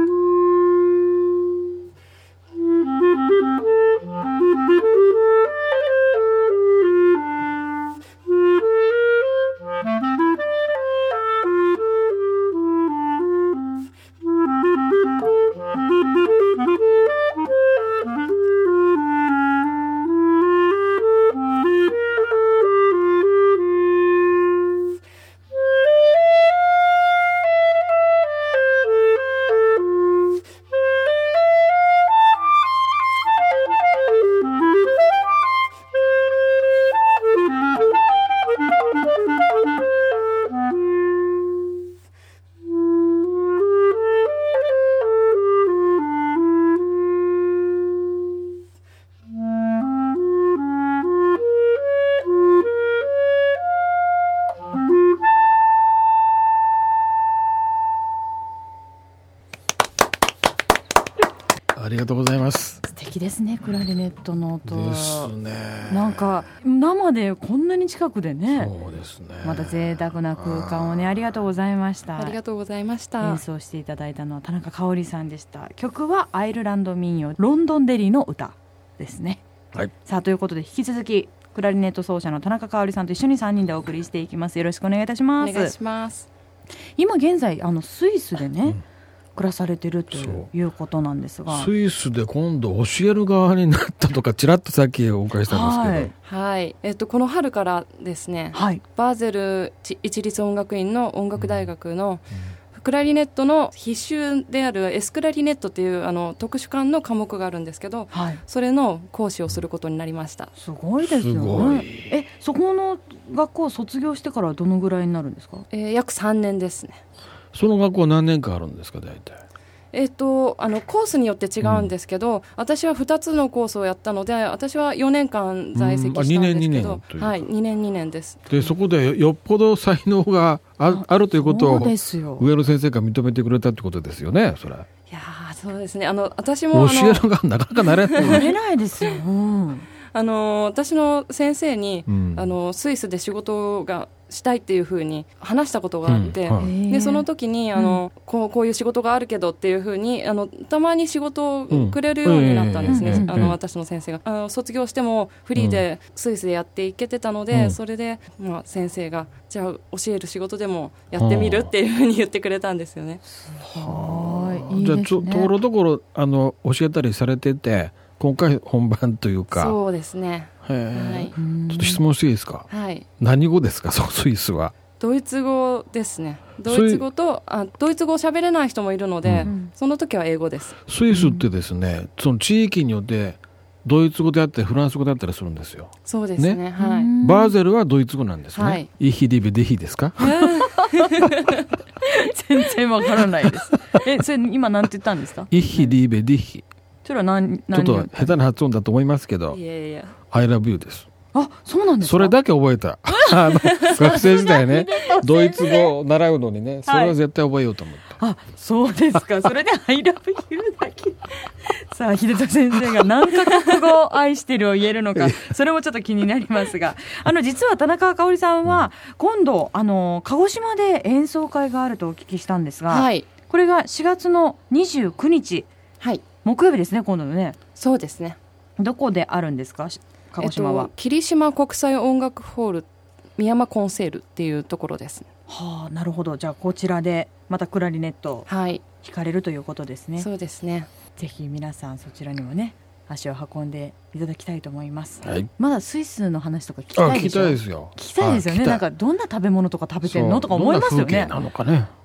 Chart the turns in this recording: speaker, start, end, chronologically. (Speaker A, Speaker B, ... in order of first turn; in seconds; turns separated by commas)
Speaker A: 61.7-62.8, Speaker B: 62.9-65.3, Speaker A: 64.7-66.3, Speaker B: 65.9-68.7, Speaker A: 68.5-71.3, Speaker B: 69.4-72.4, Speaker C: 72.2-73.4, Speaker B: 73.2-79.4, Speaker B: 80.0-85.7, Speaker C: 85.4-86.3, Speaker B: 87.0-88.8, Speaker B: 89.3-91.7, Speaker A: 90.1-90.5, Speaker A: 91.5-96.1, Speaker B: 95.5-96.1, Speaker C: 96.2-110.5, Speaker B: 98.5-98.8, Speaker B: 108.1-108.4, Speaker B: 110.6-115.7, Speaker A: 111.0-112.2, Speaker C: 115.7-117.0, Speaker A: 117.5-119.4, Speaker C: 119.9-128.4, Speaker A: 121.6-121.9, Speaker A: 125.8-127.5, Speaker A: 128.5-134.9, Speaker B: 130.9-132.5, Speaker C: 135.1-137.3, Speaker A: 136.7-138.5, Speaker C: 137.9-138.4, Speaker B: 138.2-139.9, Speaker C: 140.1-163.2, Speaker A: 142.1-142.5, Speaker A: 146.1-146.7, Speaker B: 146.6-148.0, Speaker A: 151.7-153.6, Speaker B: 152.9-153.4, Speaker A: 155.6-155.8, Speaker A: 157.5-157.8, Speaker A: 161.2-161.7, Speaker B: 163.3-165.6, Speaker A: 163.8-169.8, Speaker C: 169.5-171.3, Speaker A: 170.6-172.7, Speaker B: 171.4-172.0, Speaker C: 172.7-173.1, Speaker A: 173.2-174.7, Speaker C: 175.0-180.8, Speaker A: 176.7-177.1, Speaker A: 179.2-179.5, Speaker B: 179.4-179.7, Speaker A: 180.9-186.6, Speaker B: 181.1-181.4, Speaker C: 186.1-187.1, Speaker B: 186.8-187.6, Speaker A: 187.2-190.5, Speaker C: 188.6-188.9, Speaker B: 190.2-191.1, Speaker C: 190.2-191.4, Speaker B: 192.0-195.9, Speaker A: 193.4-194.0, Speaker A: 195.5-196.6, Speaker B: 197.1-198.4, Speaker A: 197.7-199.6, Speaker C: 199.5-200.2, Speaker A: 200.3-201.1, Speaker B: 201.3-202.4, Speaker A: 202.0-208.2, Speaker B: 203.1-205.9, Speaker C: 203.6-204.1, Speaker B: 206.9-207.2, Speaker B: 208.2-225.7, Speaker C: 222.9-223.3, Speaker B: 226.4-227.6, Speaker C: 227.8-228.4, Speaker B: 228.8-230.9, Speaker C: 230.4-235.3, Speaker B: 235.5-238.5, Speaker C: 238.5-238.8, Speaker B: 239.0-240.3, Speaker C: 240.2-240.9, Speaker B: 241.2-251.3, Speaker A: 245.2-245.5, Speaker A: 246.9-248.8, Speaker A: 250.0-251.9